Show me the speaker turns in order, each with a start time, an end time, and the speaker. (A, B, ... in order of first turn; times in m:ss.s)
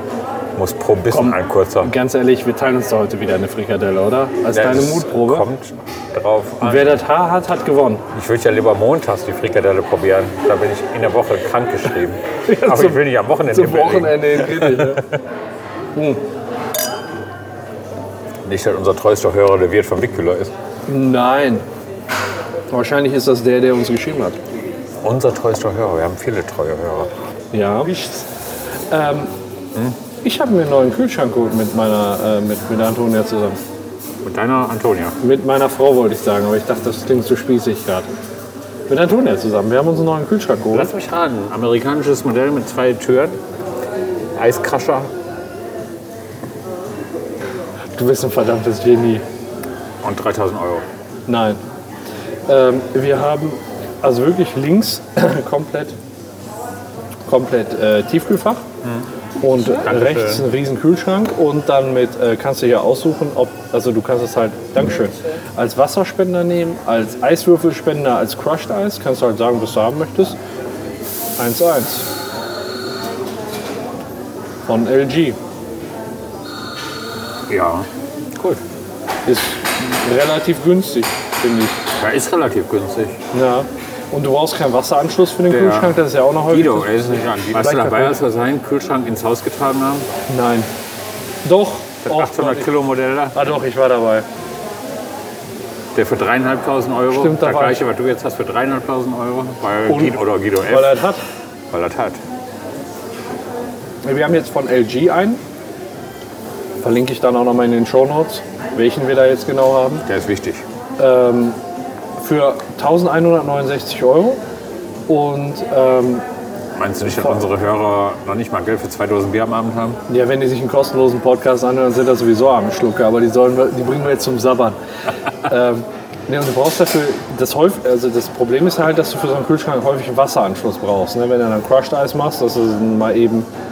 0:00.5-0:01.9 A
0:01.1-0:05.4 B
0:04.5-0:07.0 A
0:06.6-0:08.0 B
0:08.1-0:15.2 A
0:12.5-0:15.0 B
0:16.0-0:16.2 B
0:18.4-0:20.5 A
0:20.9-0:21.6 B
0:22.7-0:24.4 B
0:25.0-0:27.1 A
0:27.5-0:28.2 B
0:28.9-0:29.3 B
0:30.2-0:33.6 B
0:34.2-0:35.2 A
0:35.2-0:38.1 B
0:38.9-0:40.9 B
0:40.7-0:43.4 A
0:44.4-0:45.1 A
0:48.0-0:49.2 B
0:50.0-0:50.8 A
0:51.3-0:51.6 B
0:52.5-0:56.0 B
0:57.3-0:58.6 B
0:58.8-1:00.5 A
0:59.4-1:10.4 B
1:11.4-1:12.1 B
1:14.7-1:15.4 B
1:17.5-1:18.6 A
1:19.2-1:21.8 B
1:22.0-1:23.2 A
1:23.3-1:26.9 B
1:25.5-1:30.1 A
1:27.5-1:28.2 B
1:30.3-1:30.7 B
1:31.4-1:32.7 B
1:32.0-1:33.4 A
1:33.3-1:34.2 B
1:35.9-1:41.0 A
1:37.1-1:37.8 B
1:39.9-1:41.2 B
1:41.7-1:42.2 A
1:44.0-1:45.4 B
1:46.8-1:50.0 B
1:50.0-1:50.6 A
1:51.0-1:51.6 B
1:52.2-1:54.4 B
1:55.1-1:56.2 B
1:56.8-2:00.0 A
2:00.1-2:04.8 B
2:05.4-2:13.5 B